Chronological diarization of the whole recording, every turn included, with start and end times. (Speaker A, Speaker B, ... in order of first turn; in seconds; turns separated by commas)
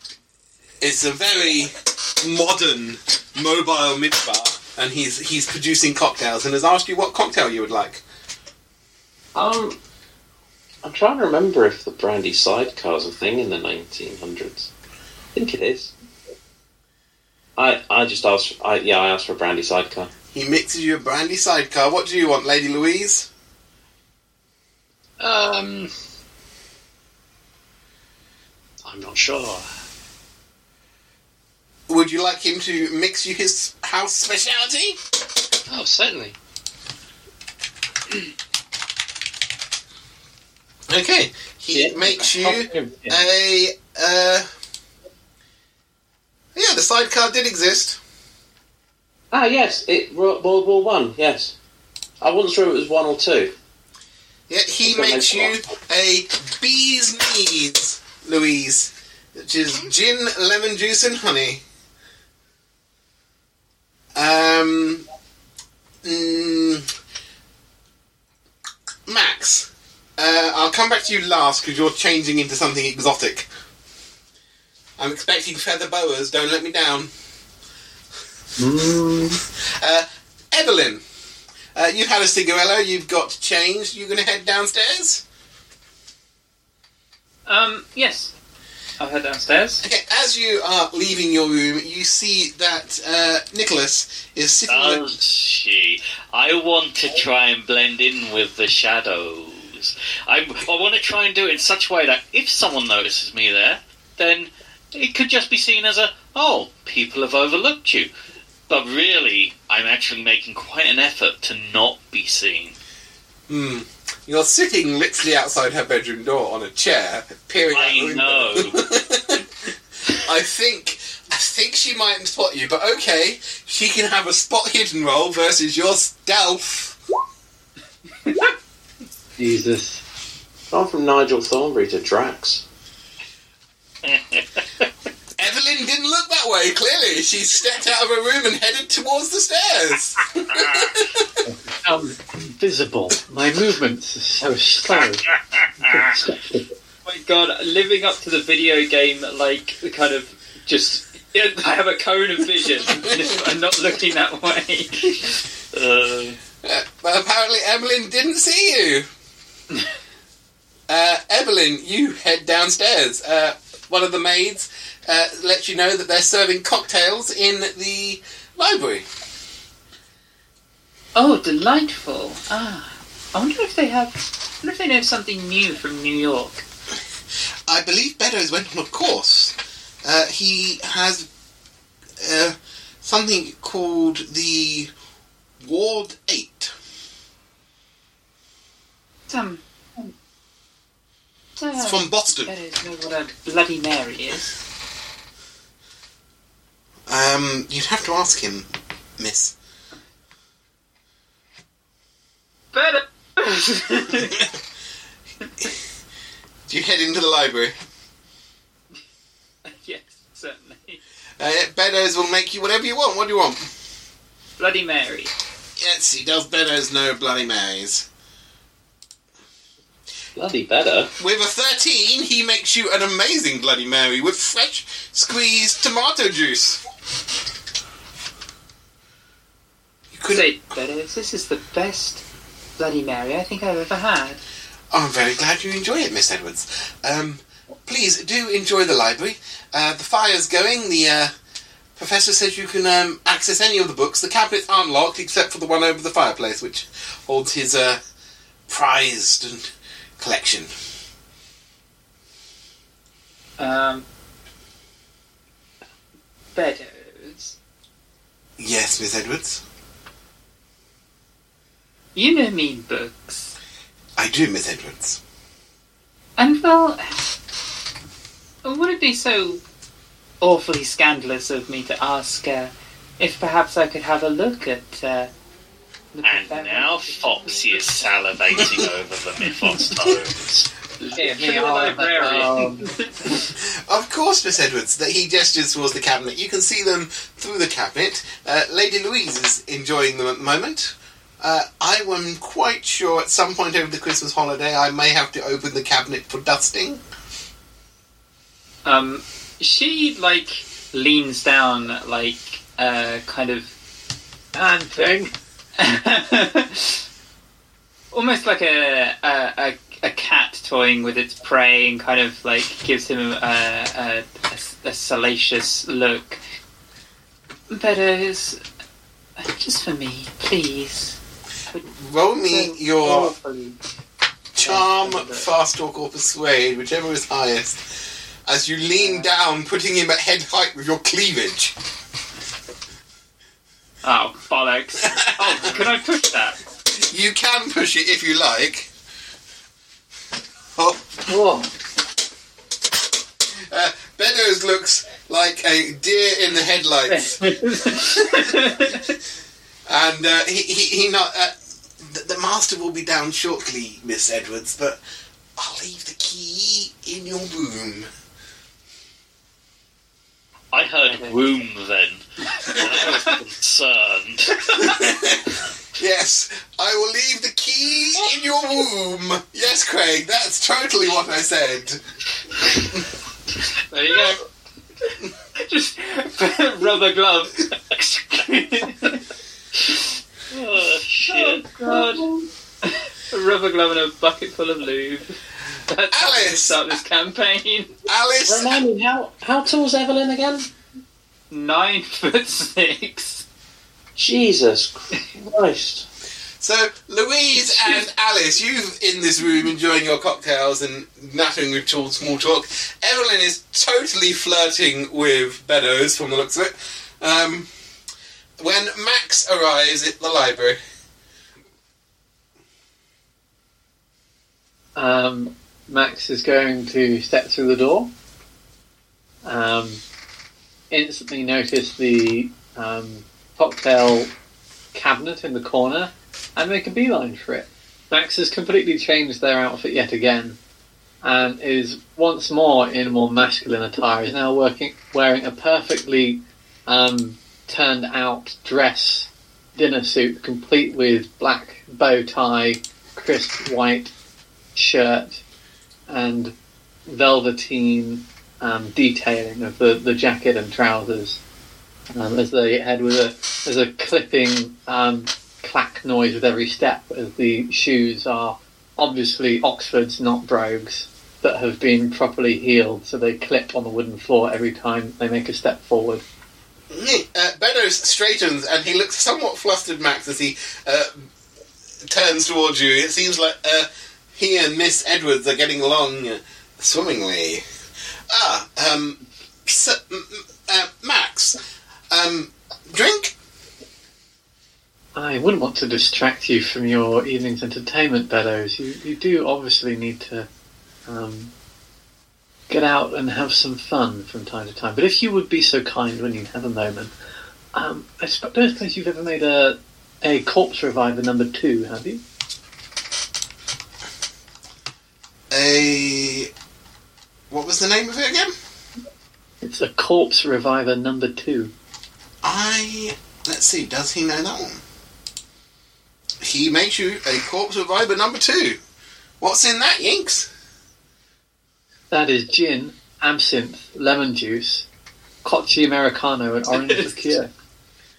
Speaker A: 0.8-8.0, Speaker B: 9.3-9.8, Speaker B: 10.8-14.7, Speaker B: 15.3-15.9, Speaker B: 17.6-20.1, Speaker A: 20.3-23.3, Speaker C: 25.2-25.9, Speaker C: 28.8-29.7, Speaker A: 31.9-35.0, Speaker C: 35.7-36.4, Speaker A: 40.9-44.5, Speaker D: 41.7-43.2, Speaker A: 46.5-48.0, Speaker B: 49.3-51.5, Speaker B: 52.2-53.5, Speaker A: 54.5-61.6, Speaker B: 54.8-55.6, Speaker A: 64.1-65.0, Speaker A: 66.0-66.9, Speaker A: 69.0-73.5, Speaker A: 75.0-77.1, Speaker D: 78.6-79.4, Speaker A: 79.8-81.0, Speaker A: 81.7-85.2, Speaker E: 87.5-88.3, Speaker E: 89.0-89.8, Speaker A: 89.8-95.2, Speaker F: 94.7-108.1, Speaker F: 108.7-112.7, Speaker A: 113.5-119.4, Speaker F: 117.7-118.8, Speaker A: 120.1-127.0, Speaker D: 129.4-130.0, Speaker B: 130.7-132.6, Speaker F: 134.0-134.8, Speaker A: 135.4-141.3, Speaker F: 140.5-141.1, Speaker D: 141.4-145.2, Speaker F: 144.9-146.2, Speaker D: 145.9-146.7, Speaker E: 147.0-155.4, Speaker B: 155.7-156.4, Speaker A: 156.6-159.1, Speaker A: 160.9-169.0, Speaker E: 171.1-176.6, Speaker A: 177.7-181.3, Speaker A: 182.2-184.9, Speaker A: 185.6-186.7, Speaker E: 189.3-190.1, Speaker E: 191.6-194.5, Speaker A: 191.8-192.5, Speaker A: 197.1-199.5, Speaker E: 202.7-204.5, Speaker A: 206.7-207.8, Speaker E: 209.7-211.0, Speaker A: 211.4-213.7, Speaker E: 214.6-215.3, Speaker A: 215.8-218.1, Speaker B: 220.3-221.1, Speaker A: 221.2-226.8, Speaker A: 230.1-230.5, Speaker E: 230.3-232.2, Speaker E: 232.8-234.4, Speaker A: 234.9-241.3, Speaker A: 241.9-248.0, Speaker A: 248.7-250.7, Speaker E: 253.6-254.1, Speaker E: 256.5-257.6, Speaker A: 258.6-259.6, Speaker E: 262.1-263.5, Speaker A: 264.2-265.2, Speaker E: 266.4-267.2, Speaker E: 268.6-269.6, Speaker E: 270.4-275.3, Speaker E: 276.1-277.5, Speaker F: 276.2-280.3, Speaker D: 281.1-282.9, Speaker E: 281.1-283.5, Speaker C: 282.1-282.3, Speaker A: 283.5-297.0, Speaker E: 298.8-303.7, Speaker D: 304.5-305.3, Speaker E: 305.8-307.0, Speaker E: 308.1-316.4, Speaker E: 317.7-318.6, Speaker E: 319.4-321.2, Speaker E: 321.7-321.9, Speaker A: 321.9-323.3, Speaker E: 322.5-323.8, Speaker A: 324.5-327.8, Speaker E: 324.6-325.4, Speaker A: 328.4-331.7, Speaker E: 329.0-329.3, Speaker E: 334.0-336.6, Speaker A: 335.0-335.8, Speaker A: 336.9-338.9, Speaker A: 340.8-341.2, Speaker D: 341.3-341.7, Speaker A: 343.5-348.5, Speaker E: 347.1-349.1, Speaker A: 349.9-355.0, Speaker A: 355.6-358.1, Speaker F: 360.7-364.8, Speaker E: 362.6-363.3, Speaker E: 364.6-365.0, Speaker A: 364.8-372.0, Speaker C: 373.9-374.4, Speaker E: 374.1-374.4, Speaker E: 375.0-379.2, Speaker F: 380.5-381.6, Speaker E: 381.3-382.3, Speaker D: 381.9-382.4, Speaker E: 382.8-385.4, Speaker E: 385.9-388.0, Speaker A: 386.1-387.0, Speaker A: 388.1-388.8, Speaker B: 388.4-390.7, Speaker E: 391.5-393.4, Speaker B: 394.1-396.1, Speaker A: 396.6-407.7, Speaker A: 408.6-410.8, Speaker D: 414.9-418.1, Speaker D: 419.4-420.0, Speaker D: 420.9-424.3, Speaker D: 424.9-430.6, Speaker D: 431.2-444.1, Speaker D: 444.7-445.4, Speaker D: 446.1-446.6, Speaker D: 447.1-451.4, Speaker D: 452.1-466.2, Speaker A: 466.9-471.3, Speaker A: 472.1-477.6, Speaker A: 478.3-481.6, Speaker A: 482.1-483.3, Speaker D: 485.1-490.5, Speaker D: 491.1-491.5, Speaker D: 492.7-497.1, Speaker D: 497.7-502.2, Speaker A: 505.5-506.5, Speaker A: 507.5-508.5, Speaker D: 509.6-511.7, Speaker A: 512.4-514.8, Speaker A: 516.4-518.8, Speaker A: 519.4-520.5, Speaker D: 522.1-524.9, Speaker D: 525.4-527.5, Speaker E: 526.8-527.2